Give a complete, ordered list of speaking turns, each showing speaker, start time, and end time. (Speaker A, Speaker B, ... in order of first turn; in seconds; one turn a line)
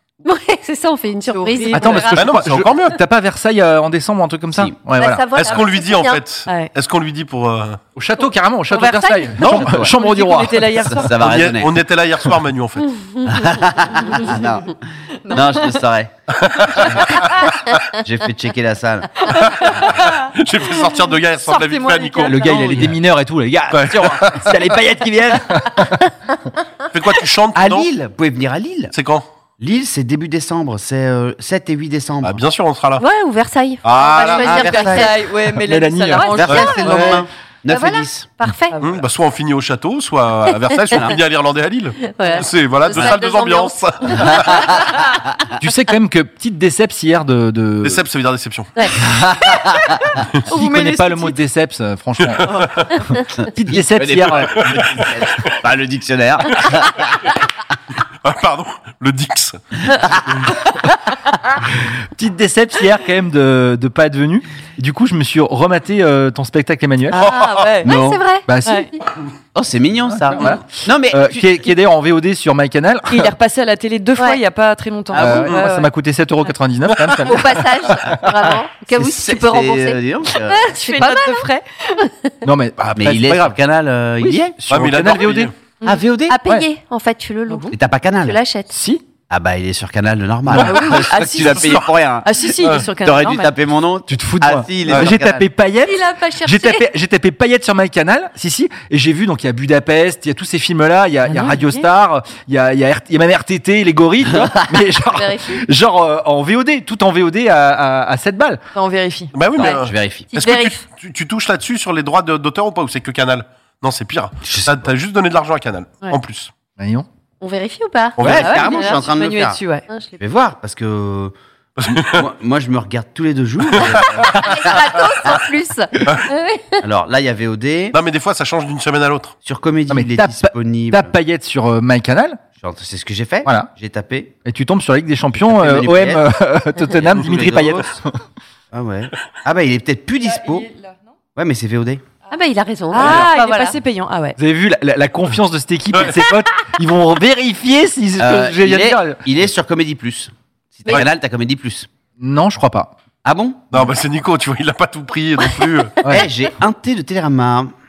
Speaker A: 0.2-2.2
Speaker B: 1.3-2.1
Speaker C: 1.7-5.2
Speaker D: 2.1-3.0
Speaker A: 5.0-6.2
Speaker D: 5.4-7.8
Speaker C: 8.0-11.0
Speaker A: 8.7-9.4
Speaker D: 9.4-9.8
Speaker E: 9.5-9.9
Speaker B: 9.9-11.1
Speaker E: 10.8-11.8
Speaker D: 11.1-12.9
Speaker A: 13.0-13.3
Speaker E: 13.2-17.4
Speaker B: 15.2-15.8
Speaker D: 16.3-17.7
Speaker E: 17.9-19.8
Speaker B: 19.3-20.3
Speaker D: 19.4-22.9
Speaker B: 21.4-22.9
Speaker C: 22.2-26.1
Speaker D: 23.7-24.6
Speaker D: 26.9-27.9
Speaker E: 27.6-28.9
Speaker D: 28.9-29.3
Speaker E: 29.6-32.4
Speaker D: 32.2-33.0
Speaker A: 33.0-35.1
Speaker D: 33.8-34.6
Speaker E: 34.2-35.1
Speaker B: 34.4-37.2
Speaker C: 35.6-37.2
Speaker A: 36.2-37.1
Speaker E: 36.3-38.3
Speaker A: 37.7-38.8
Speaker D: 38.8-44.8
Speaker E: 40.9-41.2
Speaker A: 42.0-44.9
Speaker E: 44.3-44.6
Speaker C: 45.6-48.0
Speaker D: 47.8-48.9
Speaker E: 49.0-50.1
Speaker B: 50.5-51.4
Speaker C: 50.5-53.0
Speaker D: 52.4-52.9
Speaker E: 53.4-57.3
Speaker C: 53.5-54.7
Speaker D: 54.5-55.1
Speaker D: 58.2-59.6
Speaker E: 60.0-60.2
Speaker C: 61.8-67.2
Speaker B: 67.1-67.9
Speaker D: 67.2-67.7
Speaker E: 67.8-68.2
Speaker A: 67.8-68.5
Speaker C: 68.5-68.9
Speaker B: 68.7-68.9
Speaker E: 69.5-71.7
Speaker C: 70.1-73.3
Speaker B: 73.1-75.9
Speaker E: 75.1-75.5
Speaker C: 75.2-78.3
Speaker D: 76.9-77.2
Speaker A: 77.2-81.4
Speaker E: 78.9-80.7
Speaker B: 80.6-82.1
Speaker A: 82.0-82.3
Speaker C: 82.4-83.6
Speaker E: 83.0-84.6
Speaker C: 84.2-85.5
Speaker D: 84.7-85.5
Speaker E: 85.8-86.4
Speaker A: 86.3-88.7
Speaker B: 87.5-87.7
Speaker E: 87.7-88.4
Speaker C: 88.7-89.0
Speaker E: 89.3-95.5
Speaker B: 90.5-93.5
Speaker D: 91.4-91.9
Speaker C: 94.1-108.6
Speaker D: 94.9-95.1
Speaker A: 95.8-96.8
Speaker B: 101.3-101.8
Speaker A: 105.1-105.6
Speaker B: 108.8-109.3
Speaker D: 109.3-116.5
Speaker E: 109.6-110.3
Speaker A: 110.3-110.8
Speaker E: 114.5-114.9
Speaker C: 116.8-117.1
Speaker A: 117.4-119.0
Speaker D: 118.2-118.5
Speaker E: 118.2-119.6
Speaker B: 118.3-119.9
Speaker A: 119.9-120.2
Speaker E: 120.2-121.3
Speaker D: 121.8-122.2
Speaker E: 121.9-125.3
Speaker D: 123.7-124.0
Speaker A: 124.2-126.8
Speaker D: 126.0-126.3
Speaker E: 126.8-128.0
Speaker D: 127.9-129.3
Speaker E: 129.4-131.1
Speaker C: 129.9-132.4
Speaker E: 132.6-134.3
Speaker C: 133.4-133.7
Speaker C: 134.4-138.2
Speaker E: 135.4-136.2
Speaker E: 136.9-137.9
Speaker E: 138.7-140.7
Speaker B: 140.2-141.0
Speaker E: 141.4-142.0
Speaker A: 142.3-143.8
Speaker B: 142.9-144.4
Speaker C: 144.4-149.2
Speaker E: 148.2-151.9
Speaker C: 152.2-152.9
Speaker E: 153.2-153.6
Speaker D: 153.7-156.0
Speaker C: 156.0-156.3
Speaker E: 156.1-157.7